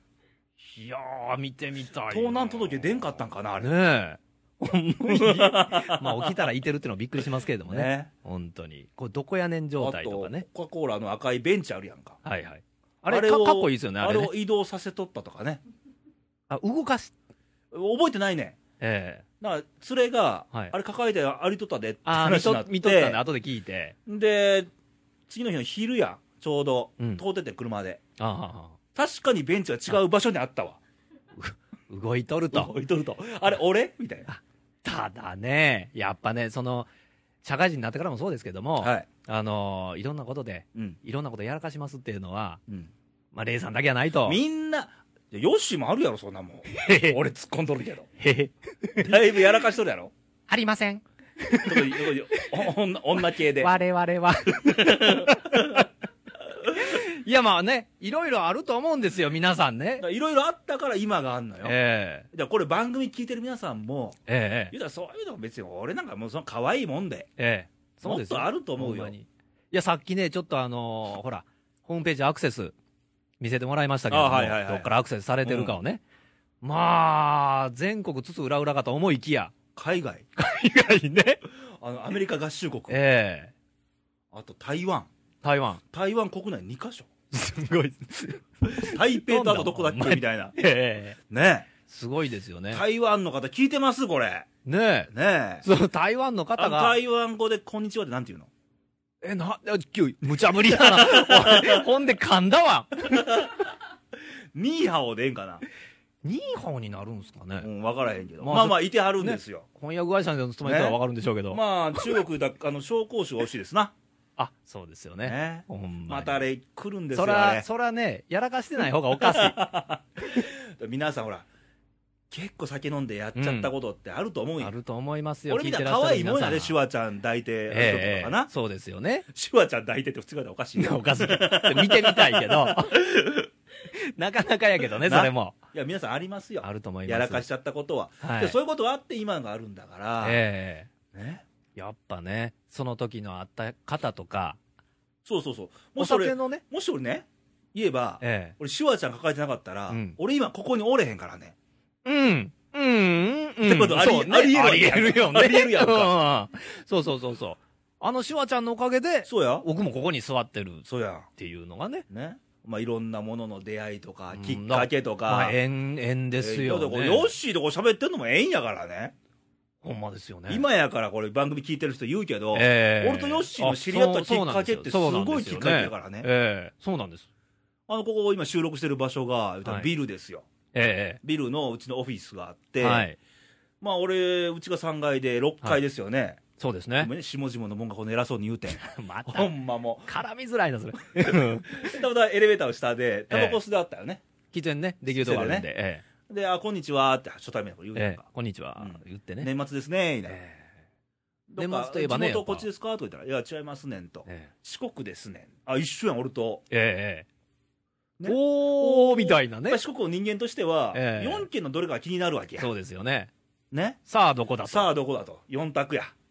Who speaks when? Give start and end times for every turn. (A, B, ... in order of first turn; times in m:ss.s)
0:00.6-0:02.8 A
0:02.1-0:03.7 B
0:03.6-0:10.4 A
0:05.0-0:06.4 B
0:07.7-0:08.1 B
0:09.8-0:12.2 B
0:12.2-0:14.3 A
0:13.1-0:15.6 B
0:16.5-0:17.1 A
0:17.7-0:18.6 B
0:18.8-0:19.2 A
0:19.4-0:23.2 B
0:22.0-0:23.9 A
0:24.0-0:24.7 B
0:25.3-0:28.0 B
0:28.2-0:28.8 A
0:28.9-0:30.8 B
0:31.4-0:32.7 A
0:32.5-0:34.3 B
0:34.3-0:36.9 A
0:37.4-0:42.6 A
0:38.8-0:39.1 B
0:43.3-0:44.4 A
0:44.2-0:48.1 B
0:46.7-0:47.2 A
0:48.2-0:49.2 A
0:49.0-0:50.1 B
0:50.5-0:52.6 A
0:51.6-0:53.7 B
0:53.6-0:55.8 A
0:54.5-0:55.8 B
0:56.7-1:00.0 A
1:00.0-1:01.8 B
1:01.6-1:02.3 A
1:02.3-1:04.2 B
1:04.3-1:04.7 A
1:04.7-1:07.3 B
1:07.4-1:12.7 A
1:08.0-1:09.1 B
1:13.4-1:16.0 A
1:14.1-1:14.9 B
1:15.4-1:15.8 B
1:16.6-1:19.5 A
1:19.7-1:20.2 B
1:20.4-1:21.4 A
1:21.7-1:23.0 B
1:22.9-1:23.5 A
1:24.3-1:25.1 B
1:25.4-1:25.8 A
1:25.9-1:27.1 B
1:27.3-1:31.2 A
1:28.8-1:30.5 B
1:31.3-1:31.7 B
1:31.9-1:32.8 A
1:32.7-1:34.5 B
1:34.6-1:35.1 A
1:35.1-1:35.6 B
1:35.6-1:37.0 A
1:36.6-1:38.5 B
1:39.2-1:43.5 A
1:40.6-1:41.9 B
1:43.1-1:43.7 B
1:44.5-1:45.6 B
1:46.2-1:47.7 A
1:47.6-1:49.6 B
1:48.4-1:51.6 A
1:50.6-1:51.0 B
1:51.5-1:53.9 B
1:54.4-1:56.4 A
1:55.2-1:57.6 B
1:57.1-1:59.6 A
1:59.1-2:01.5 B
2:02.3-2:04.7 B
2:03.4-2:03.7 A
2:04.6-2:06.8 A
2:05.5-2:08.5 B
2:07.7-2:09.3 A
2:09.3-2:13.5 B
2:10.8-2:13.0 A
2:13.9-2:15.6 A
2:15.0-2:20.4 B
2:16.6-2:17.4 A
2:18.2-2:18.6 A
2:20.2-2:20.9 A
2:21.1-2:21.4 B
2:21.8-2:24.6 A
2:25.2-2:31.5 B
2:26.0-2:26.6 A
2:28.2-2:28.5 A
2:29.9-2:30.2 A
2:32.0-2:42.0 A
2:33.6-2:36.1 B
2:39.2-2:39.6 B
2:40.8-2:41.3 B
2:42.1-2:45.6 B
2:44.3-2:47.3 A
2:46.4-2:49.1 B
2:49.8-2:50.6 A
2:50.5-2:56.3 B
2:52.5-2:57.3 A
2:57.9-3:00.5 B
3:00.7-3:01.2 A
3:01.2-3:03.0 B
3:02.8-3:03.2 A
3:03.8-3:06.4 B
3:06.6-3:07.1 A
3:07.0-3:10.1 B
3:08.7-3:09.5 A
3:10.1-3:12.0 A
3:11.2-3:14.2 B
3:13.3-3:13.6 A
3:14.5-3:16.0 A
3:15.0-3:15.7 B
3:16.3-3:18.2 B
3:17.9-3:19.5 A
3:18.8-3:20.4 B
3:20.3-3:20.7 A
3:21.5-3:26.6 B
3:21.6-3:22.7 A
3:24.2-3:24.5 A
3:26.7-3:27.3 A
3:28.2-3:32.7 B
3:28.2-3:29.8 A
3:30.9-3:31.5 A
3:32.6-3:33.3 A
3:33.7-3:34.0 B
3:34.1-3:34.9 A
3:34.6-3:36.1 B